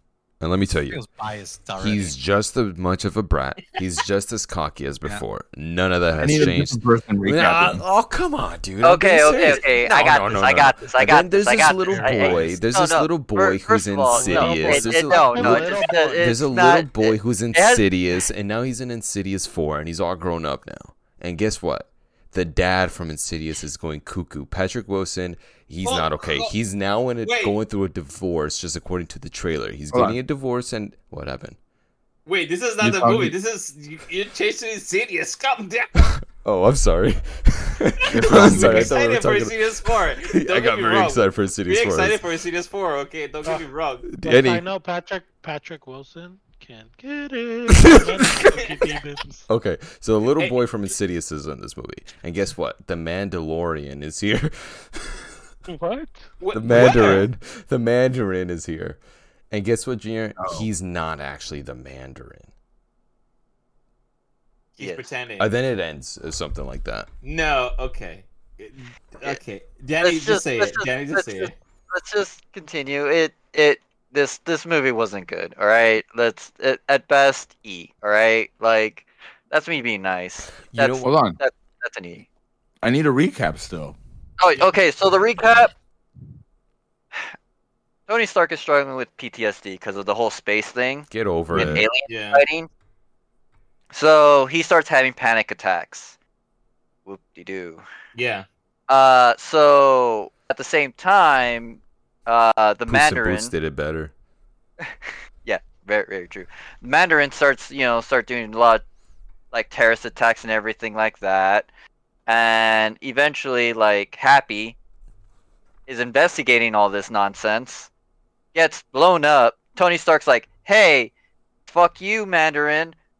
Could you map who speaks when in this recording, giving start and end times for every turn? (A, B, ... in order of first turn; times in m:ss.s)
0:00.4-0:01.0 A
0:00.9-0:02.2 B
0:01.8-0:31.6 A
0:06.2-0:07.8 C
0:08.8-0:17.8 D
0:11.8-0:12.5 B
0:14.1-0:16.3 E
0:25.8-0:26.5 F
0:27.2-0:27.6 F
0:29.9-0:30.2 C
0:32.3-0:36.0 F
0:32.8-0:33.4 C
0:36.2-0:42.2 A
0:38.1-0:38.9 C
0:38.1-0:44.1 F
0:44.1-0:44.6 A
0:44.2-0:49.5 E
0:47.8-0:48.5 A
0:49.5-0:55.3 A
0:55.7-0:56.3 E
0:56.4-0:57.3 F
0:56.5-0:59.0 A
0:59.5-1:02.5 A
1:00.4-1:00.7 C
1:04.8-1:05.5 F
1:04.8-1:05.0 D
1:05.4-1:07.1 A
1:07.2-1:11.5 F
1:10.0-1:22.2 D
1:20.7-1:21.2 A
1:21.0-1:21.4 C
1:22.8-1:24.0 C
1:24.4-1:25.7 D
1:28.1-1:32.7 D
1:31.1-1:31.9 A
1:31.6-1:32.4 F
1:33.9-1:36.1 D
1:37.0-1:37.8 D
1:38.1-1:38.4 F
1:38.9-1:43.5 D
1:42.9-1:44.1 A
1:45.4-1:48.8 D
1:49.5-1:51.7 D
1:52.3-1:54.8 D
1:55.9-1:57.9 D
1:58.5-2:01.1 D
2:01.7-2:03.0 D